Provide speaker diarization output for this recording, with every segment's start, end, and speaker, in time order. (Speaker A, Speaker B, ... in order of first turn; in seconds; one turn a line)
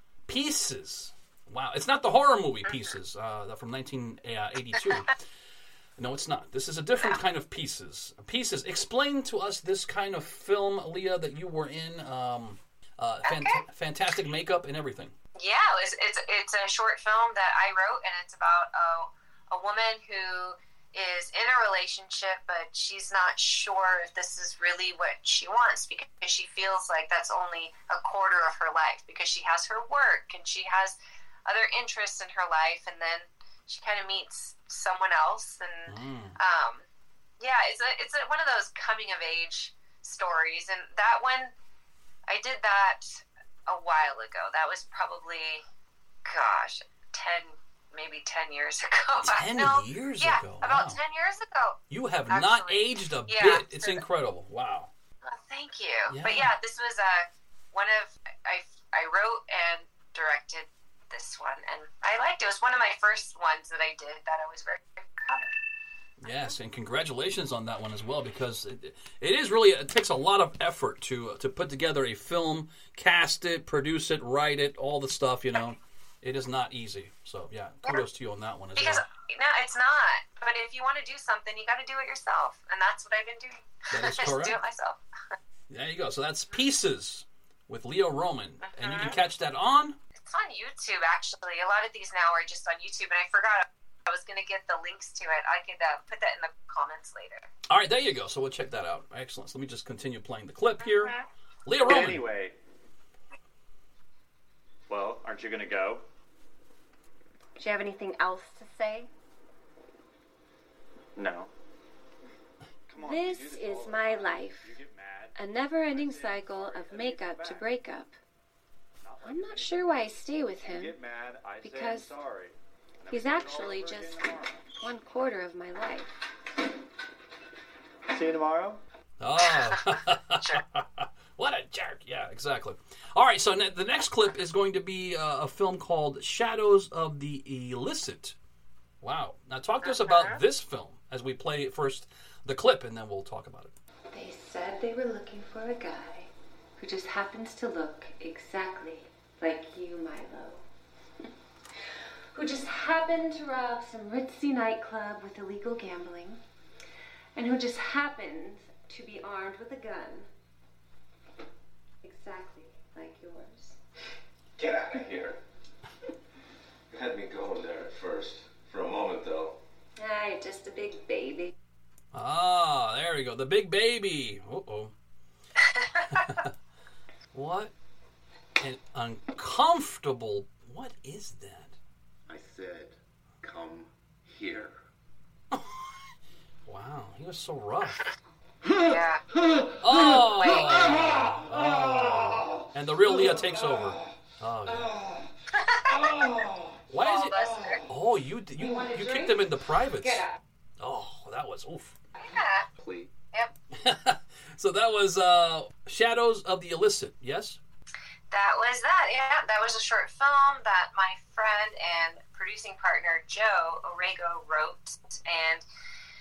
Speaker A: 0.3-5.2
Speaker A: 6.0-15.2
Speaker B: 13.2-13.6
Speaker B: 15.4-36.9
Speaker A: 35.9-36.4
Speaker B: 37.4-41.5
Speaker B: 42.3-45.6
Speaker B: 46.2-54.0
Speaker A: 49.2-51.0
Speaker A: 51.9-54.9
Speaker B: 55.2-65.5
Speaker A: 56.1-56.5
Speaker A: 66.2-79.0
Speaker B: 78.8-85.3
Speaker A: 83.9-84.6
Speaker A: 85.7-90.0
Speaker B: 88.6-89.2
Speaker B: 90.2-97.5
Speaker A: 97.7-102.3
Speaker C: 101.8-102.6
Speaker C: 104.9-106.0
Speaker D: 107.6-109.1
Speaker C: 111.2-111.5
Speaker C: 112.9-117.7
Speaker D: 113.0-114.8
Speaker D: 115.4-118.2
Speaker C: 119.0-124.6
Speaker D: 119.2-121.0
Speaker D: 121.6-122.2
Speaker D: 123.1-124.2
Speaker D: 124.8-126.2
Speaker C: 128.1-128.8
Speaker A: 129.2-138.4
Speaker A: 139.0-143.7
Speaker B: 139.8-140.4
Speaker D: 144.1-150.6
Speaker D: 152.3-156.4
Speaker D: 157.4-160.3
Speaker D: 162.0-163.8
Speaker E: 164.6-165.4
Speaker E: 166.9-169.6
Speaker D: 170.0-171.5
Speaker A: 172.1-174.9
Speaker B: 175.8-176.2
Speaker A: 176.2-176.5
Speaker A: 177.3-177.7
Speaker A: 178.6-181.8
Speaker E: 182.3-184.7
Speaker A: 185.5-185.9
Speaker A: 186.7-188.0
Speaker B: 188.9-189.2
Speaker A: 189.8-195.0
Speaker B: 190.3-191.2
Speaker B: 195.6-196.1
Speaker A: 196.9-200.3
Speaker B: 197.0-197.8
Speaker A: 200.8-201.9
Speaker B: 202.2-202.7
Speaker E: 202.8-203.1
Speaker A: 203.7-207.6
Speaker B: 208.3-215.6